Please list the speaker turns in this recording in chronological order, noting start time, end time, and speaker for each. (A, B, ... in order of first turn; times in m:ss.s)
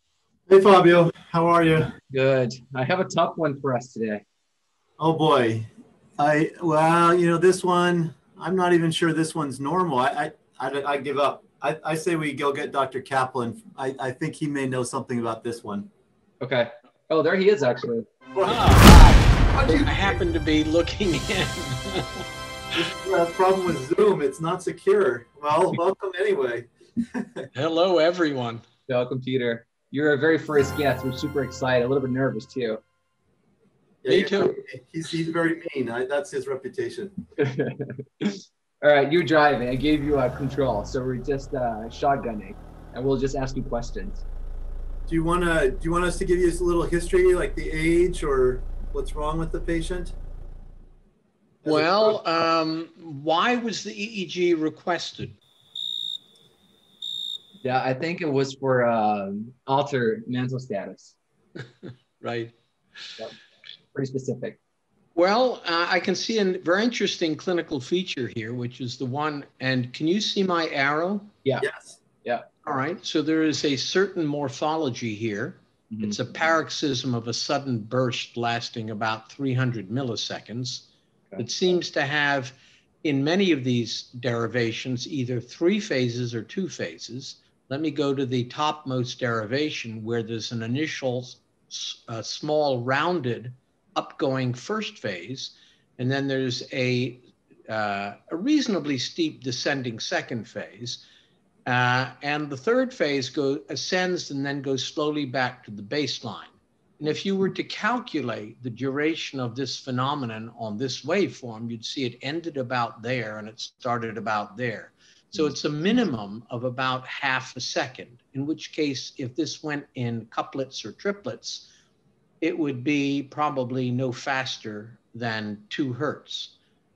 0:00.5-0:02.0 A
0:02.1-0:04.2 B
0:05.0-0:15.9 A
0:16.4-0:18.1 B
0:18.3-0:18.7 A
0:18.5-0:22.2 C
0:19.6-0:20.1 A
0:22.7-0:27.5 A
0:27.5-0:28.6 C
0:28.9-0:32.8 B
0:34.0-0:37.2 A
0:34.1-0:34.6 C
0:37.4-0:44.2 B
0:45.1-0:50.2 A
0:51.6-0:52.2 A
0:51.7-0:55.4 C
0:57.6-1:01.2 B
1:01.8-1:02.5 C
1:03.9-1:04.6 B
1:05.2-1:11.3 C
1:11.6-1:12.0 A
1:12.6-1:41.0 C
1:15.9-1:16.2 B
1:41.7-2:01.7 C
2:02.4-2:06.6 C